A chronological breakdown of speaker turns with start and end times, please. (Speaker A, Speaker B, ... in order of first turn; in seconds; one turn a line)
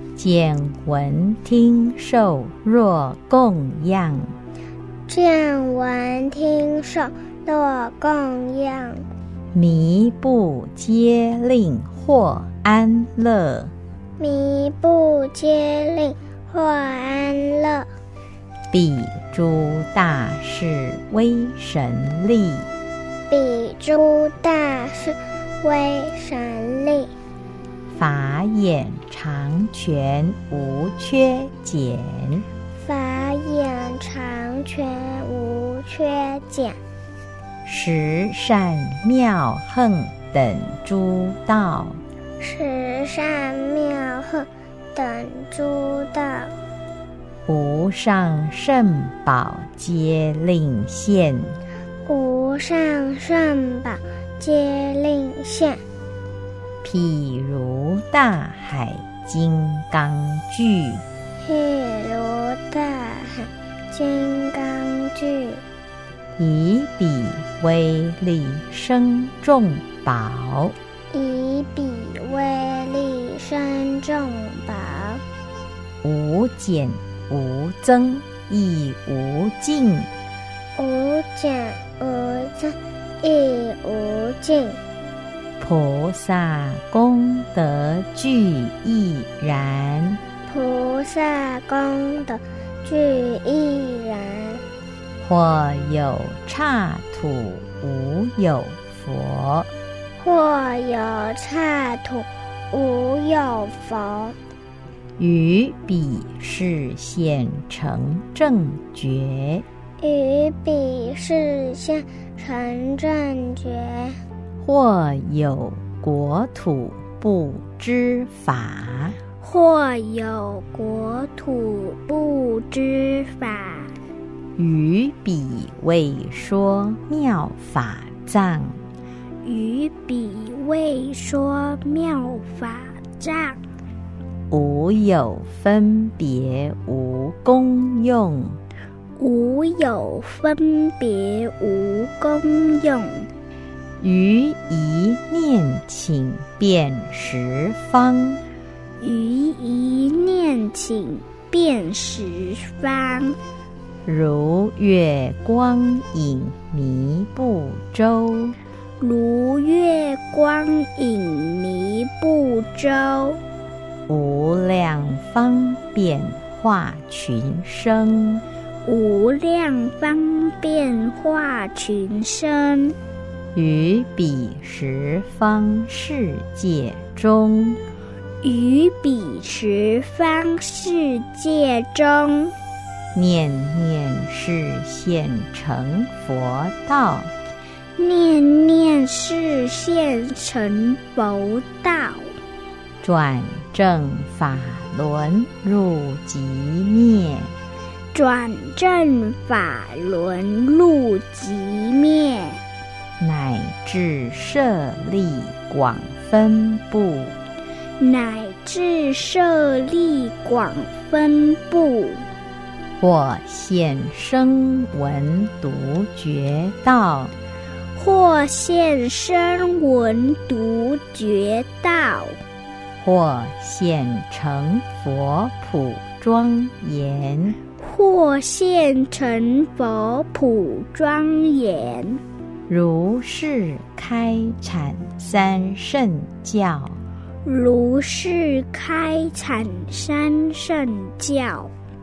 Speaker A: 0.2-4.3
Speaker B: 5.1-9.0
Speaker A: 9.5-13.7
Speaker B: 14.2-17.9
Speaker A: 18.7-22.7
Speaker B: 23.3-27.1
Speaker A: 27.9-32.5
Speaker B: 32.8-36.8
Speaker A: 37.6-42.0
Speaker B: 42.4-46.5
Speaker A: 47.5-51.6
Speaker B: 52.1-55.8
Speaker A: 56.8-61.0
Speaker B: 61.4-65.6
Speaker A: 66.4-70.8
Speaker B: 71.1-75.2
Speaker A: 76.0-80.1
Speaker B: 80.8-84.8
Speaker A: 85.6-90.2
Speaker B: 90.5-94.6
Speaker A: 95.2-99.7
Speaker B: 100.2-104.4
Speaker A: 105.2-109.7
Speaker B: 110.0-114.2
Speaker A: 114.6-119.2
Speaker C: 119.4-124.0
Speaker A: 124.6-128.8
Speaker C: 129.4-133.6
Speaker A: 134.5-138.6
Speaker C: 139.2-143.3
Speaker A: 144.0-148.4
Speaker C: 149.0-153.4
Speaker A: 154.1-158.6
Speaker C: 159.0-163.4
Speaker A: 164.1-168.4
Speaker C: 168.8-173.0
Speaker A: 173.6-177.8
Speaker C: 178.4-182.5
Speaker A: 183.1-187.3
Speaker C: 188.0-192.3
Speaker A: 193.0-197.5
Speaker C: 198.1-202.6
Speaker A: 203.2-207.4
Speaker C: 208.0-212.3
Speaker A: 213.0-217.3
Speaker C: 217.9-222.4
Speaker A: 223.0-227.6
Speaker C: 227.8-232.2
Speaker A: 232.7-237.0
Speaker C: 237.4-241.7